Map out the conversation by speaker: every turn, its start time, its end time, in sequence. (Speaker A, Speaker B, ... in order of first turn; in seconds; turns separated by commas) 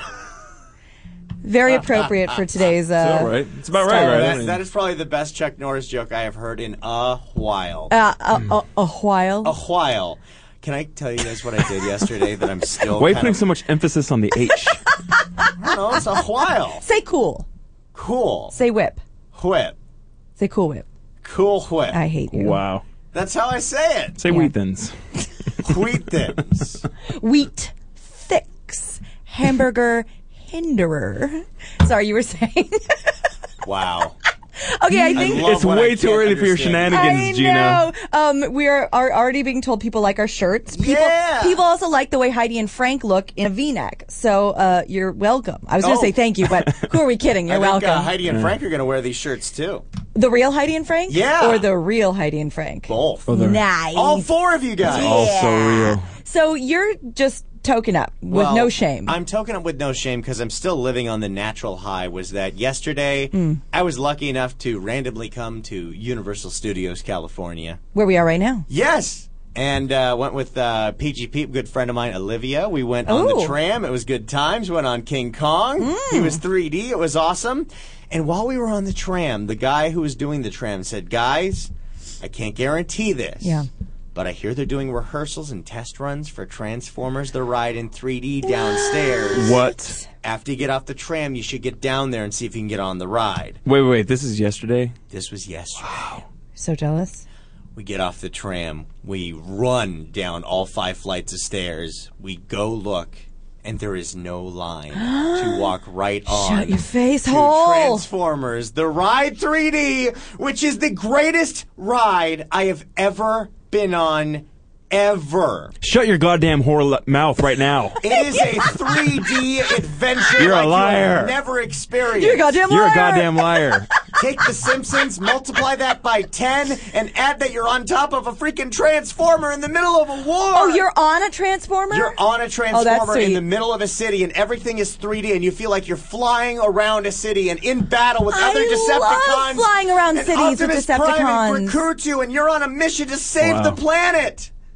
Speaker A: 1.4-4.3, Speaker B: 1.7-2.1, Speaker C: 3.0-4.6, Speaker B: 3.7-7.9, Speaker A: 7.9-9.6, Speaker B: 9.4-13.4, Speaker C: 12.9-14.8, Speaker B: 15.6-16.8, Speaker A: 16.8-17.4, Speaker B: 17.9-18.6, Speaker A: 18.5-19.0, Speaker B: 19.3-19.8, Speaker A: 20.4-20.9, Speaker B: 21.2-22.0, Speaker A: 21.9-22.6, Speaker C: 22.3-22.8, Speaker B: 23.1-24.2, Speaker C: 24.2-24.9, Speaker B: 25.6-26.8, Speaker A: 27.2-33.0, Speaker B: 33.6-34.2, Speaker A: 34.6-35.5, Speaker C: 34.9-37.9, Speaker B: 35.0-37.3, Speaker A: 36.9-48.1, Speaker B: 40.7-41.6, Speaker B: 45.8-46.1, Speaker B: 47.5-49.8, Speaker A: 50.1-54.3, Speaker B: 51.1-51.7, Speaker B: 52.9-53.3, Speaker C: 53.3-53.6, Speaker B: 53.9-55.3, Speaker C: 54.9-56.1, Speaker A: 54.9-59.2, Speaker B: 58.3-67.8, Speaker A: 63.3-63.6, Speaker A: 67.9-68.7, Speaker B: 68.7-89.6, Speaker A: 73.1-73.6, Speaker A: 75.8-76.4, Speaker A: 83.4-83.7, Speaker A: 88.8-90.0, Speaker C: 89.3-90.0, Speaker B: 90.2-93.6, Speaker C: 93.7-95.0, Speaker B: 95.1-96.2, Speaker A: 96.6-97.2, Speaker B: 97.8-115.7, Speaker A: 104.9-105.7, Speaker A: 106.3-108.0, Speaker C: 115.8-118.0, Speaker B: 118.0-122.5, Speaker A: 118.2-118.7, Speaker C: 120.4-121.3, Speaker A: 122.2-123.6, Speaker C: 122.7-123.9, Speaker B: 124.2-130.8, Speaker A: 130.5-132.2, Speaker B: 131.9-144.5, Speaker A: 132.7-133.4, Speaker A: 138.3-141.8, Speaker C: 143.4-143.8